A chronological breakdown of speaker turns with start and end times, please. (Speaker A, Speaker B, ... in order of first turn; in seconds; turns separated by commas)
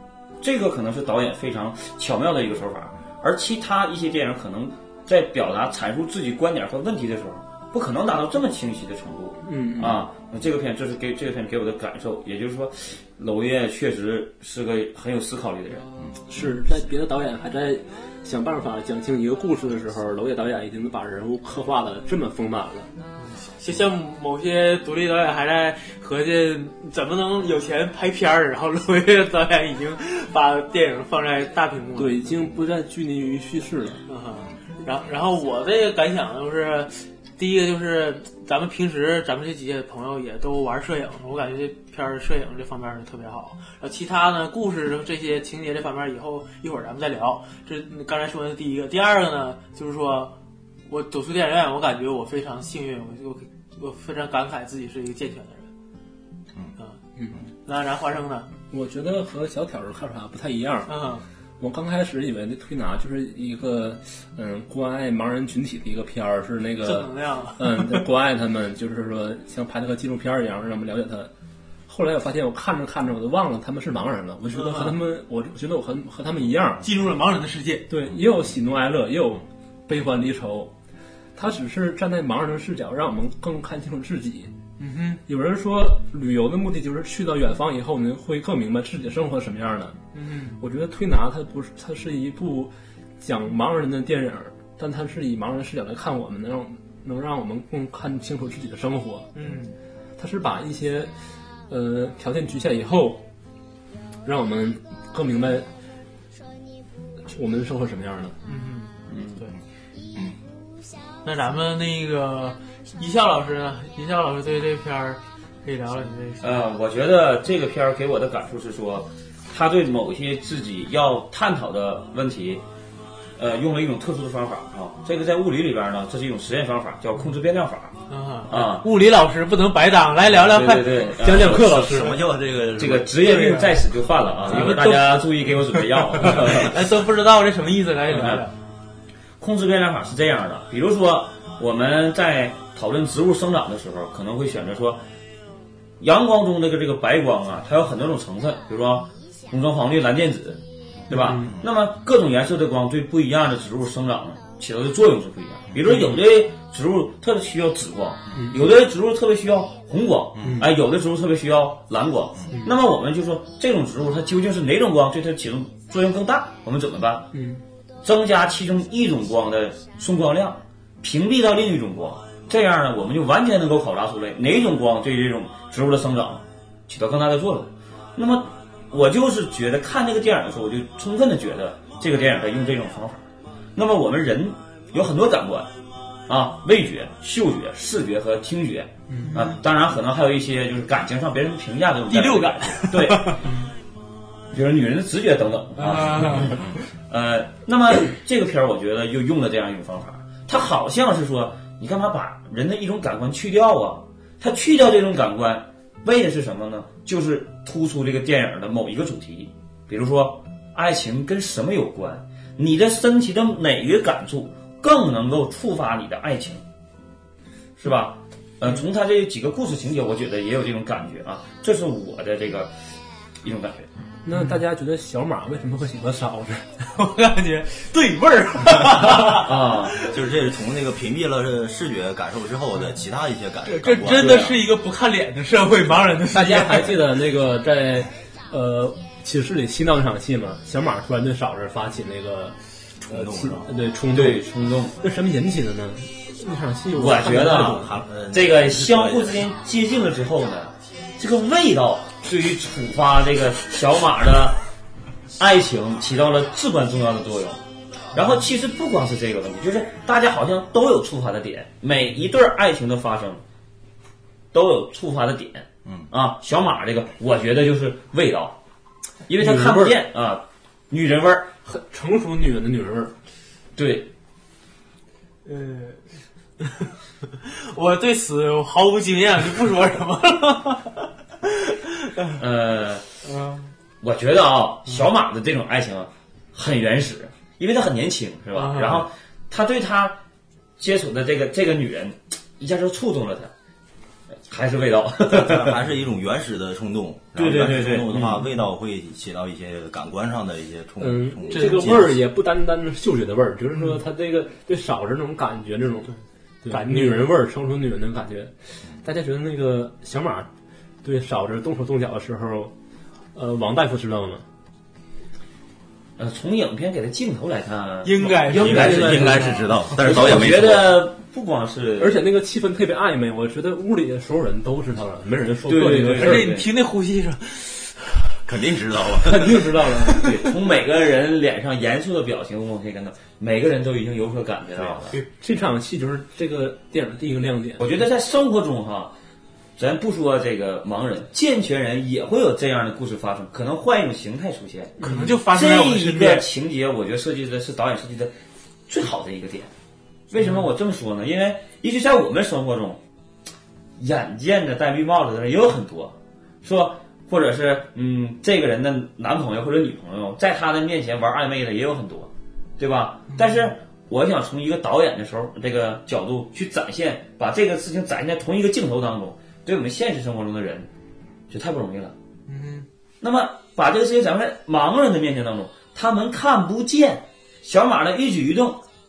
Speaker A: 0.4-15.9, Speaker B: 9.4-10.0, Speaker B: 16.3-22.9, Speaker C: 23.1-32.2, Speaker B: 31.9-34.0, Speaker C: 34.1-50.3, Speaker C: 50.9-55.7, Speaker C: 57.6-58.5, Speaker B: 58.7-60.9, Speaker C: 60.9-61.2, Speaker B: 61.6-71.3, Speaker C: 66.8-68.0, Speaker B: 71.9-76.8, Speaker C: 74.5-75.0, Speaker C: 76.8-77.9, Speaker B: 77.9-80.7, Speaker B: 81.3-84.5, Speaker C: 84.8-85.2, Speaker B: 85.2-90.0, Speaker C: 90.1-90.6, Speaker B: 90.6-99.3, Speaker C: 99.3-99.8, Speaker B: 100.2-101.1, Speaker B: 101.7-103.2, Speaker B: 104.2-105.7, Speaker B: 107.3-108.3, Speaker C: 108.4-109.5, Speaker A: 109.1-109.4, Speaker C: 111.2-116.7, Speaker A: 116.4-122.6, Speaker A: 123.4-128.9, Speaker C: 128.1-131.0, Speaker A: 130.3-131.9, Speaker B: 131.2-132.2, Speaker D: 131.3-133.2, Speaker A: 132.8-136.8, Speaker C: 133.3-133.8, Speaker C: 134.4-138.5, Speaker A: 138.1-138.4, Speaker A: 139.4-145.0, Speaker A: 146.0-167.3, Speaker D: 151.1-151.7, Speaker B: 151.1-151.5, Speaker B: 155.8-156.2, Speaker B: 158.3-158.6, Speaker D: 160.3-160.7, Speaker B: 160.4-160.7, Speaker B: 162.5-162.8, Speaker B: 167.3-167.6, Speaker A: 168.0-183.2, Speaker A: 183.7-185.7, Speaker A: 186.3-193.4, Speaker B: 189.1-189.4, Speaker C: 189.2-189.6, Speaker C: 192.1-193.6, Speaker A: 194.5-216.6, Speaker C: 195.8-196.8, Speaker A: 217.8-222.7, Speaker A: 223.4-223.9, Speaker B: 224.2-226.6, Speaker C: 224.3-224.6, Speaker C: 226.9-230.2, Speaker A: 229.4-230.0, Speaker D: 230.0-234.5, Speaker C: 233.6-237.0, Speaker A: 234.0-234.7, Speaker B: 236.3-244.4, Speaker D: 243.0-243.7, Speaker A: 244.1-244.9, Speaker B: 245.0-248.0, Speaker A: 246.9-254.6, Speaker D: 247.3-249.5, Speaker A: 255.4-257.6, Speaker A: 258.1-263.4, Speaker A: 264.5-268.6, Speaker A: 269.3-271.5, Speaker B: 269.4-269.9, Speaker B: 271.6-273.1, Speaker A: 273.8-274.1, Speaker C: 275.4-276.1, Speaker C: 276.6-282.4, Speaker A: 282.4-283.0, Speaker C: 283.2-283.7, Speaker A: 284.0-290.2, Speaker C: 288.5-289.0, Speaker A: 290.8-293.5, Speaker A: 294.4-295.8, Speaker D: 295.3-302.1, Speaker A: 297.3-298.4, Speaker B: 301.0-306.1, Speaker C: 301.5-302.1, Speaker B: 306.6-310.5, Speaker C: 306.7-307.2, Speaker B: 311.0-312.7, Speaker B: 313.3-314.4, Speaker A: 316.2-319.3, Speaker C: 318.0-319.7, Speaker D: 318.4-321.0, Speaker B: 318.5-319.6, Speaker A: 320.0-322.2, Speaker B: 322.0-326.5, Speaker A: 325.7-326.7, Speaker C: 326.0-328.4, Speaker D: 328.4-329.6, Speaker B: 329.2-330.3, Speaker C: 330.1-330.4, Speaker A: 330.1-335.1, Speaker D: 334.8-335.1, Speaker B: 335.3-337.9, Speaker A: 337.8-339.1, Speaker A: 339.8-348.3, Speaker B: 345.0-345.4, Speaker C: 345.0-346.4, Speaker A: 348.9-349.7, Speaker A: 350.3-353.0, Speaker A: 354.0-370.9, Speaker C: 363.3-363.7, Speaker A: 371.5-372.1, Speaker C: 372.5-372.9, Speaker A: 373.2-378.8